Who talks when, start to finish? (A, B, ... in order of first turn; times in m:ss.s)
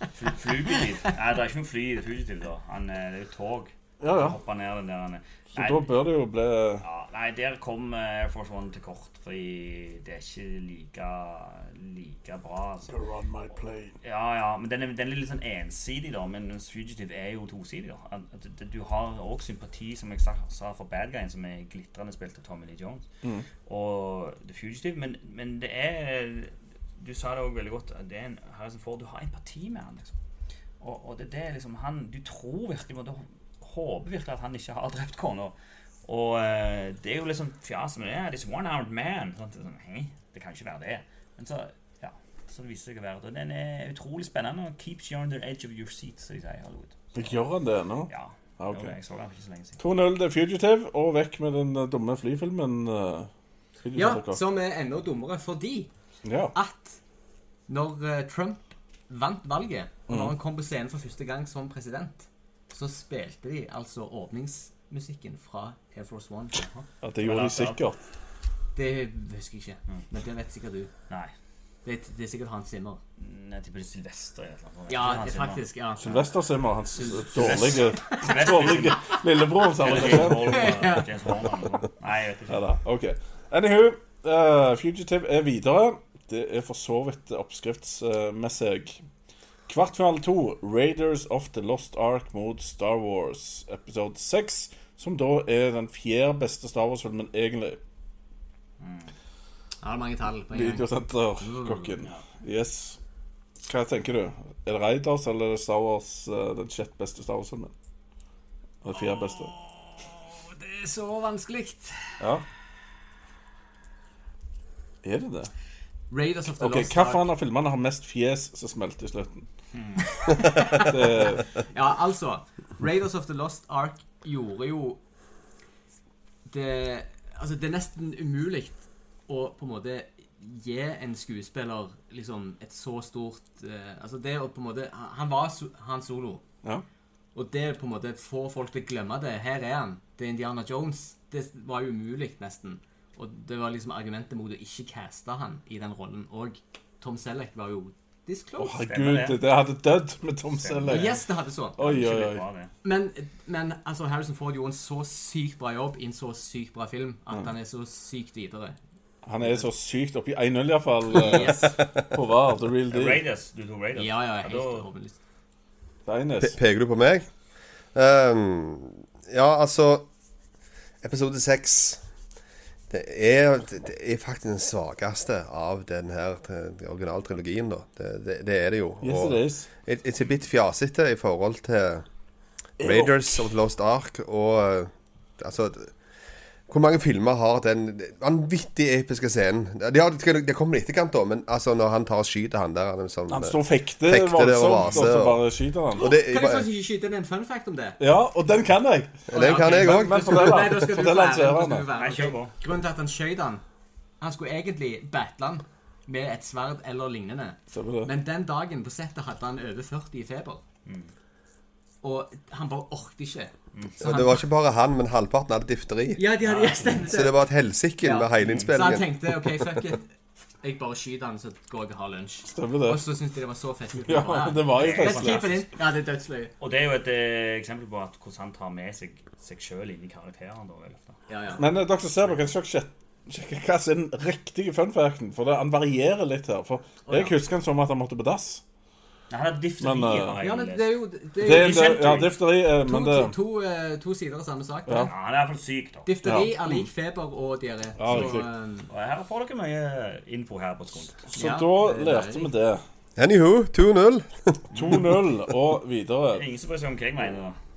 0:00.1-0:05.9 A
0:04.0-0:04.4 B
0:05.5-0:06.8 B
0:06.8-0:12.9 A
0:12.9-0:13.9 B
0:14.0-0:23.0 A
0:23.6-0:30.2 A
0:30.8-0:47.4 A
0:47.2-0:48.9 B
0:48.1-0:49.8 A
0:49.8-0:53.3 B
0:53.8-0:54.4 B
0:53.9-0:55.9 C
0:56.2-0:56.5 B
0:56.5-0:57.0 C
0:57.7-1:06.8 C
1:00.1-1:00.3 B
1:07.0-1:08.0 B
1:07.2-1:07.8 A
1:08.8-1:10.9 C
1:11.8-1:13.0 C
1:13.2-1:15.6 A
1:14.9-1:16.3 C
1:16.0-1:20.9 B
1:16.9-1:18.6 C
1:17.3-1:19.2 A
1:19.8-1:22.6 A
1:19.8-1:21.4 C
1:22.5-1:29.0 B
1:29.7-1:37.8 B
1:38.8-1:39.1 A
1:39.8-1:42.0 C
1:40.5-1:43.0 B
1:43.6-1:47.7 B
1:48.8-1:49.5 B
1:49.0-1:52.2 C
1:52.2-1:52.4 B
1:55.0-1:55.5 B
1:56.1-1:57.3 C
1:56.6-1:59.4 B
1:59.7-2:00.1 A
2:00.3-2:05.0 C
2:00.3-2:01.5 B
2:06.5-2:16.4 C
2:17.3-2:28.8 C
2:28.6-2:31.2 B
2:28.8-2:29.4 A
2:30.5-2:31.2 A
2:30.8-2:31.8 C
2:31.8-2:32.4 B
2:31.8-2:32.7 A
2:32.8-2:38.8 C
2:39.2-2:43.2 B
2:41.1-2:41.7 C
2:42.9-2:44.8 A
2:44.0-2:45.2 C
2:46.0-2:46.6 B
2:46.4-2:47.2 D
2:47.9-2:50.1 D
2:51.0-2:52.0 D
2:52.9-3:02.0 D
2:59.0-2:59.7 B
3:02.8-3:05.9 D
3:02.8-3:03.3 B
3:06.7-3:16.7 D
3:13.3-3:16.1 B
3:16.0-3:18.0 C
3:18.0-3:21.8 B
3:19.3-3:20.8 D
3:19.3-3:23.6 C
3:22.0-3:22.5 A
3:24.2-3:30.6 C
3:27.7-3:28.1 B
3:30.8-3:31.1 A
3:32.0-3:34.4 C
3:34.0-3:36.3 D
3:36.2-3:37.4 C
3:36.4-3:37.0 A
3:37.0-3:39.6 D
3:38.0-3:40.1 C
3:38.4-3:38.7 A
3:40.6-3:46.5 C
3:42.5-3:43.0 B
3:44.1-3:45.6 B
3:44.7-3:45.6 A
3:46.6-3:51.2 A
3:51.3-3:51.6 C
3:51.6-3:58.6 B
3:57.0-3:57.3 C
3:59.3-4:02.4 A
3:59.8-4:00.4 B
4:00.4-4:02.0 C
4:01.4-4:03.3 B
4:02.8-4:05.1 C
4:05.0-4:06.1 A
4:06.0-4:08.9 C
4:06.2-4:06.9 B
4:08.0-4:08.4 B
4:08.9-4:11.3 A
4:11.3-4:12.5 C
4:11.3-4:12.8 B
4:13.2-4:14.6 D
4:14.7-4:15.0 A
4:14.8-4:16.4 B
4:16.3-4:17.6 A